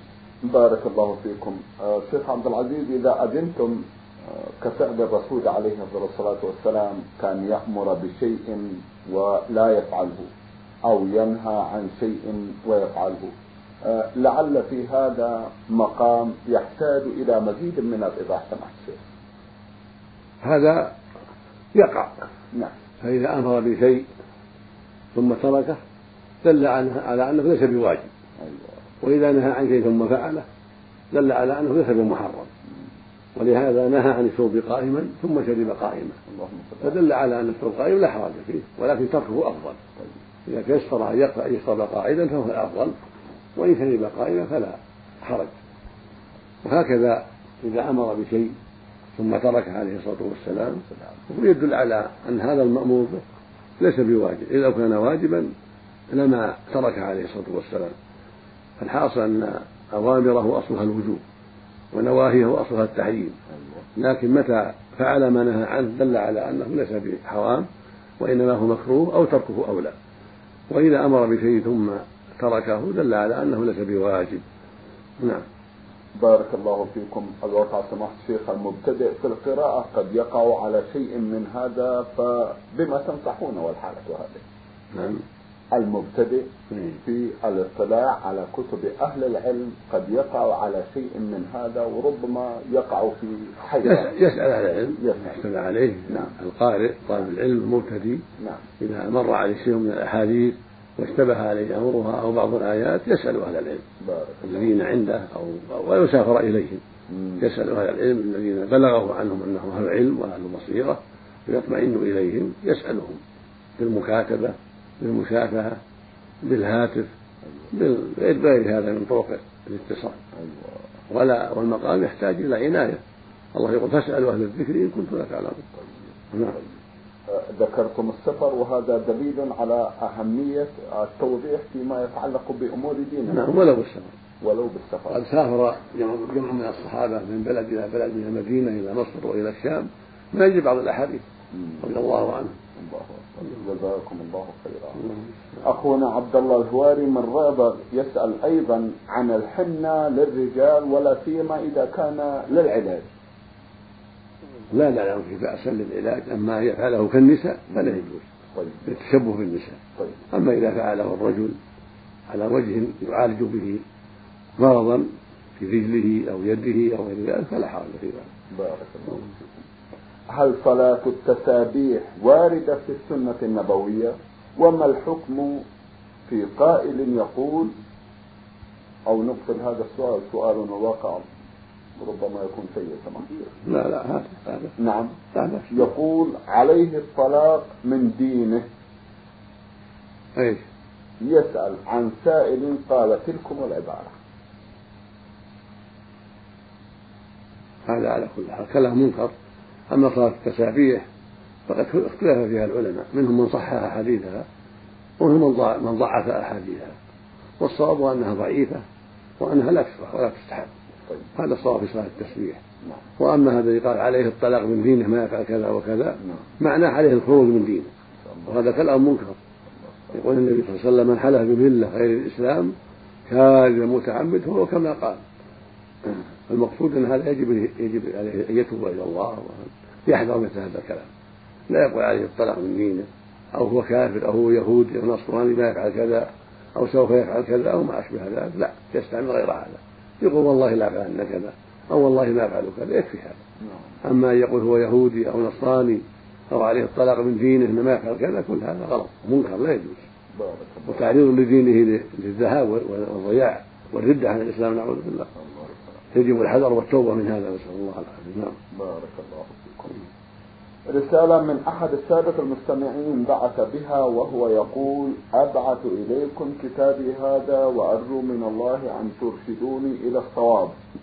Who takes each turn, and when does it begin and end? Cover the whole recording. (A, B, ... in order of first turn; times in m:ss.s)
0:00.4-0:03.8 A
0:04.4-0:10.3 A
0:10.8-0:19.0 A
0:20.4-0:21.0 B
0:21.7-0:22.2 B
0:23.0-0:24.0 B
0:25.1-0:25.8 B
0:26.4-0:28.1 B
0:28.4-0:28.8 A
0:29.0-0:30.4 B
0:31.1-0:32.5 B
0:33.4-0:36.2 B
0:36.3-0:37.0 A
0:36.8-0:39.8 B
0:40.5-0:43.0 B
0:43.6-0:45.5 B
0:46.6-0:48.6 B
0:49.2-0:53.2 B
0:53.8-0:55.5 B
0:56.1-0:57.9 B
0:58.8-1:01.2 B
1:01.9-1:03.4 B
1:04.0-1:07.7 B
1:08.2-1:09.9 B
1:10.7-1:14.4 B
1:15.2-1:15.5 B
1:16.2-1:24.4 A
1:24.9-1:25.2 B
1:25.7-1:34.1 A
1:26.7-1:27.0 B
1:33.8-1:38.2 B
1:35.0-1:35.4 A
1:38.8-1:43.8 B
1:44.0-1:44.7 A
1:44.4-1:46.8 B
1:47.1-1:47.4 A
1:47.4-1:53.2 B
1:53.8-1:55.8 B
1:56.4-1:57.1 B
1:57.7-2:00.2 B
2:00.4-2:00.8 A
2:01.1-2:03.0 B
2:03.6-2:05.7 B
2:06.3-2:06.6 B
2:07.3-2:13.5 A
2:13.3-2:14.1 B
2:14.4-2:15.2 A
2:15.1-2:21.2 B
2:21.6-2:21.8 A
2:21.8-2:22.6 B
2:22.8-2:25.1 A
2:25.6-2:33.1 A
2:34.7-2:38.3 B
2:38.6-2:38.8 A
2:38.8-2:39.8 B
2:40.3-2:41.6 B
2:42.3-2:43.8 B
2:44.6-2:48.3 B
2:48.5-2:49.5 A
2:50.3-2:55.6 A
2:56.3-2:57.8 A
2:59.1-3:01.3 A
3:02.0-3:03.6 A
3:03.6-3:04.8 B
3:04.8-3:05.2 A
3:05.3-3:05.9 B
3:05.7-3:08.7 A
3:10.4-3:10.6 B
3:11.2-3:14.1 A
3:17.9-3:19.3 B
3:19.9-3:21.1 B
3:21.7-3:24.5 B
3:25.2-3:27.0 B
3:27.6-3:28.8 B
3:29.4-3:30.7 B
3:31.4-3:32.6 B
3:33.2-3:37.9 B
3:38.5-3:39.4 B
3:40.1-3:42.7 B
3:43.3-3:45.2 B
3:46.0-3:51.1 B
3:51.7-4:03.4 B
4:03.6-4:04.0 A
4:04.0-4:10.1 B
4:10.4-4:11.1 A
4:10.9-4:15.3 B
4:15.4-4:15.9 A
4:16.1-4:18.6 B
4:18.7-4:20.0 A
4:20.9-4:30.7 A